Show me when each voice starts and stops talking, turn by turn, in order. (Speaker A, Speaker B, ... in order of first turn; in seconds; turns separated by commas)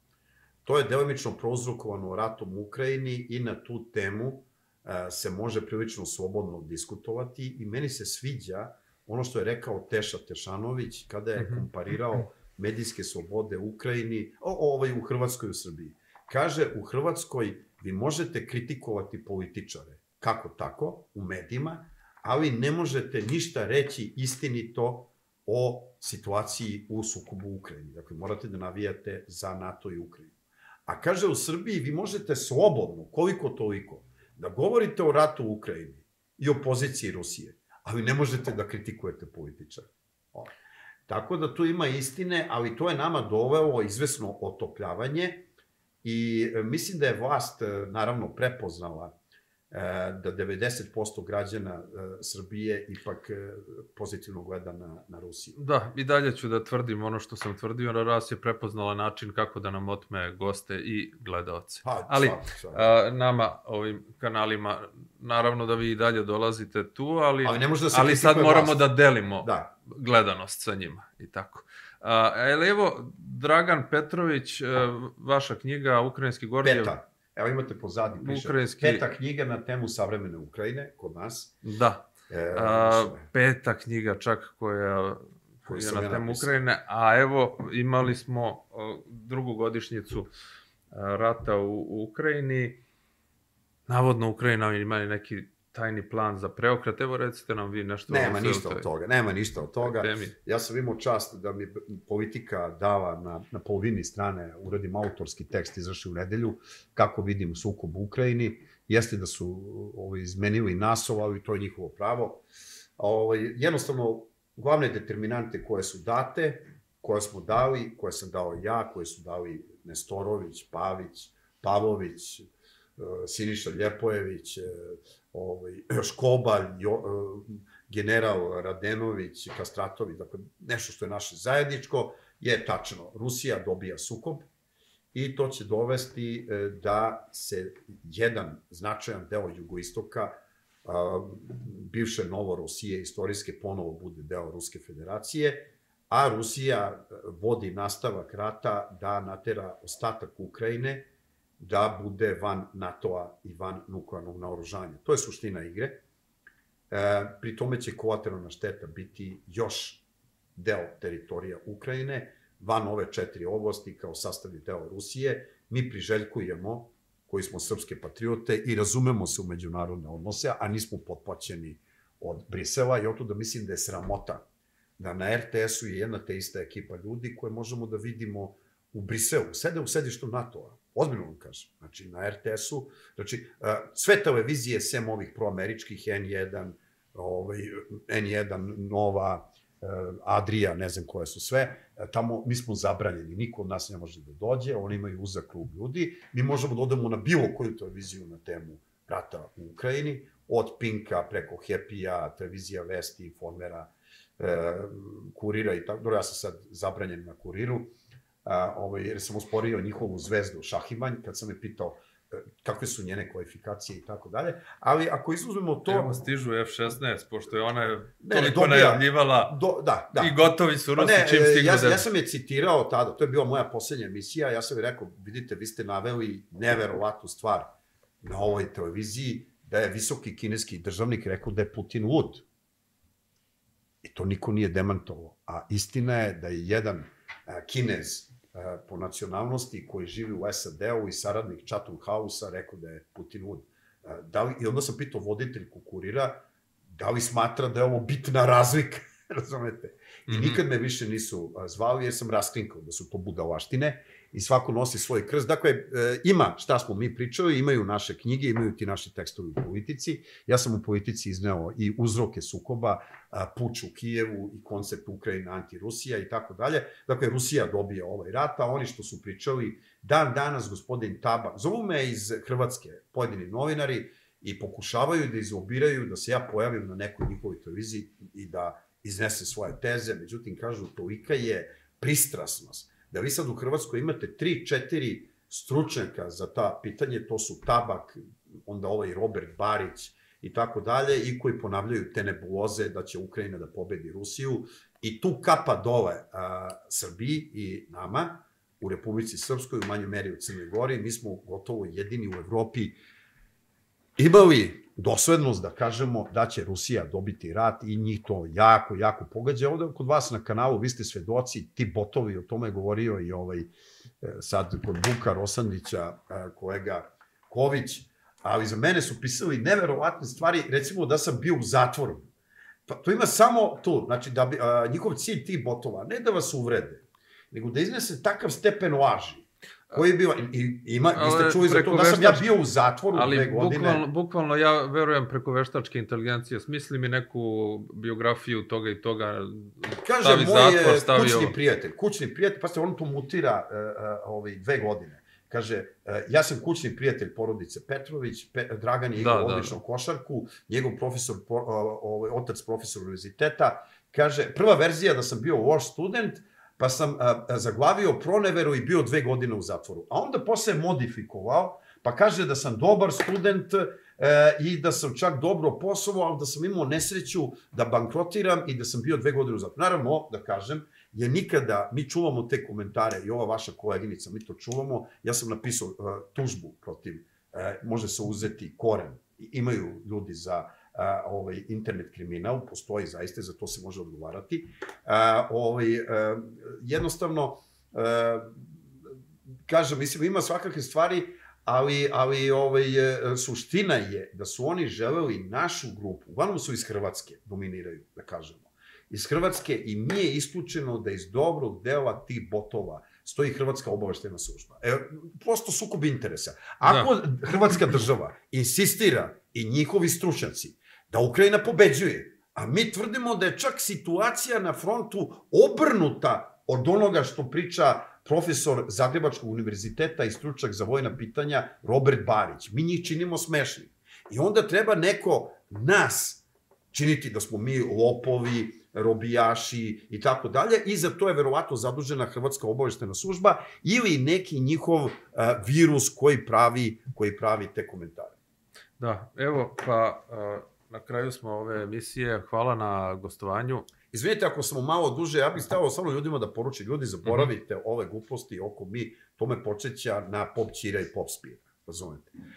Speaker A: 0.6-30.3, Speaker B: 11.4-11.9, Speaker A: 30.9-40.5, Speaker A: 41.1-45.5, Speaker A: 46.0-49.1, Speaker A: 49.7-55.6, Speaker B: 55.5-77.0, Speaker A: 61.8-62.9, Speaker A: 67.4-68.9, Speaker A: 69.4-69.7, Speaker A: 76.6-81.5, Speaker B: 78.2-79.0, Speaker B: 81.6-90.3, Speaker A: 82.3-83.3, Speaker A: 85.7-86.5, Speaker B: 90.9-92.8, Speaker B: 93.9-98.9, Speaker A: 98.1-112.4, Speaker B: 99.8-100.3, Speaker A: 113.0-134.5, Speaker A: 135.1-151.1, Speaker A: 151.6-156.0, Speaker A: 156.9-160.0, Speaker A: 160.6-174.4, Speaker A: 175.0-207.9, Speaker A: 208.4-216.2, Speaker B: 215.9-219.6, Speaker A: 218.2-220.4, Speaker B: 220.1-222.0, Speaker A: 221.0-232.4, Speaker A: 234.0-303.0, Speaker B: 250.3-250.6, Speaker A: 304.2-322.3, Speaker A: 322.9-334.0, Speaker B: 331.1-332.5, Speaker B: 333.1-341.5, Speaker A: 340.0-388.7, Speaker B: 349.1-349.8, Speaker A: 389.7-438.4, Speaker B: 406.8-407.1, Speaker B: 439.0-443.9, Speaker A: 444.1-452.3, Speaker B: 447.2-447.5